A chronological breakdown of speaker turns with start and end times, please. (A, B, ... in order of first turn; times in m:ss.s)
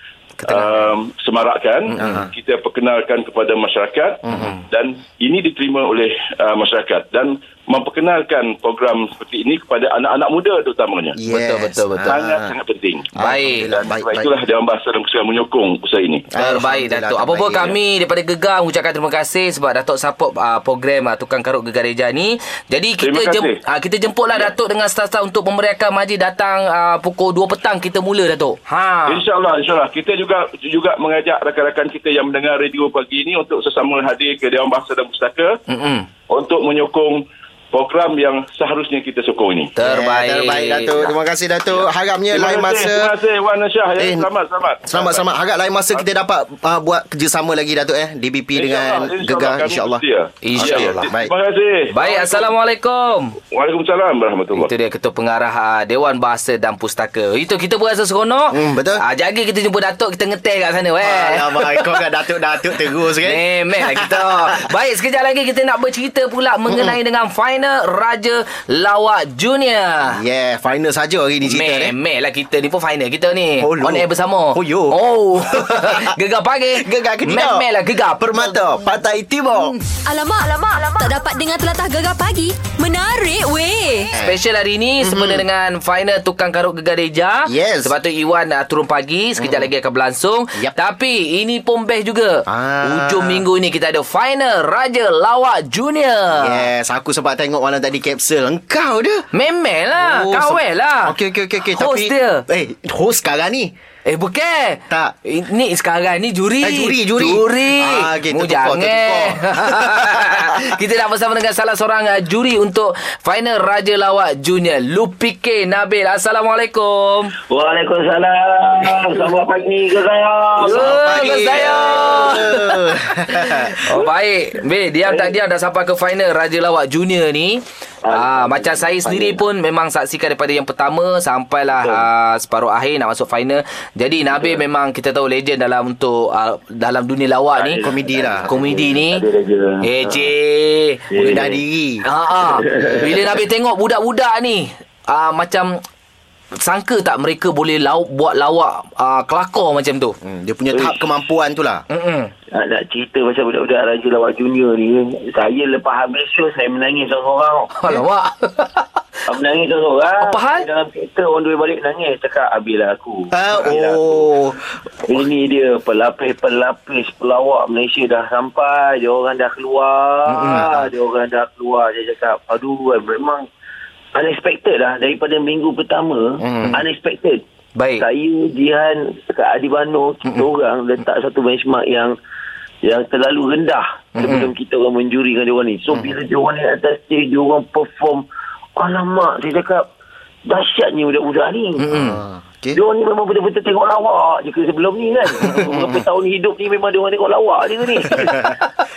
0:00.4-0:00.9 A
0:00.4-0:11.2 B
0:02.0-0:02.3 A
0:02.0-0:02.2 C
0:04.3-0:04.6 A
0:11.2-0:12.5 A
0:11.3-0:12.2 C
0:12.1-0:13.1 B
0:13.2-0:14.3 A
0:13.2-0:13.7 C
0:13.7-0:16.3 B
0:16.3-0:17.8 A
0:16.4-0:29.2 C
0:23.0-0:23.6 B
0:29.1-0:35.6 B
0:35.7-0:36.1 C
0:36.3-0:39.7 B
0:39.8-0:41.1 C
0:39.8-0:43.1 A
0:41.7-0:45.2 B
0:44.0-0:44.3 A
0:44.9-0:50.0 A
0:48.6-0:52.5 B
0:50.4-0:51.1 C
0:50.6-0:51.3 A
0:51.9-0:53.4 C
0:53.5-0:54.7 B
0:54.5-1:02.0 C
0:58.5-0:59.0 A
1:01.0-1:04.7 A
1:03.2-1:10.2 C
1:06.7-1:07.0 A
1:10.1-1:11.9 A
1:11.5-1:18.6 C
1:13.6-1:16.1 A
1:16.8-1:17.7 A
1:18.2-1:19.7 A
1:19.9-1:24.1 D
1:24.2-1:36.7 C
1:25.0-1:25.4 A
1:27.5-1:28.0 A
1:29.4-1:29.7 A
1:32.5-1:33.4 A
1:36.4-1:39.3 A
1:39.3-1:41.1 C
1:40.0-1:43.7 A
1:41.8-1:42.4 C
1:44.1-1:57.4 C
1:46.6-1:50.4 A
1:57.5-2:02.3 E
2:00.6-2:17.8 C
2:00.7-2:03.9 A
2:05.1-2:05.4 E
2:08.0-2:09.4 E
2:11.8-2:12.1 E
2:17.6-2:20.3 E
2:17.8-2:18.5 A
2:18.5-2:19.3 C
2:19.8-2:21.3 C
2:21.1-2:21.6 E
2:21.2-2:22.0 A
2:22.0-2:25.8 C
2:22.4-2:23.4 E
2:26.6-2:30.2 C
2:30.2-2:31.8 A
2:31.9-2:32.3 C
2:32.5-2:37.7 E
2:37.8-2:38.9 C
2:39.3-2:44.3 E
2:40.2-2:40.7 C
2:43.3-2:44.6 A
2:45.0-2:53.5 E
2:50.3-2:50.7 C
2:54.1-2:57.4 E
2:56.4-2:56.8 A
2:57.8-2:58.1 C
2:58.0-3:02.2 E
3:02.8-3:09.9 E
3:04.2-3:04.5 C
3:10.4-3:11.8 E
3:11.8-3:12.2 C
3:11.9-3:12.8 A
3:12.7-3:18.6 E
3:15.5-3:16.0 A
3:18.1-3:18.6 C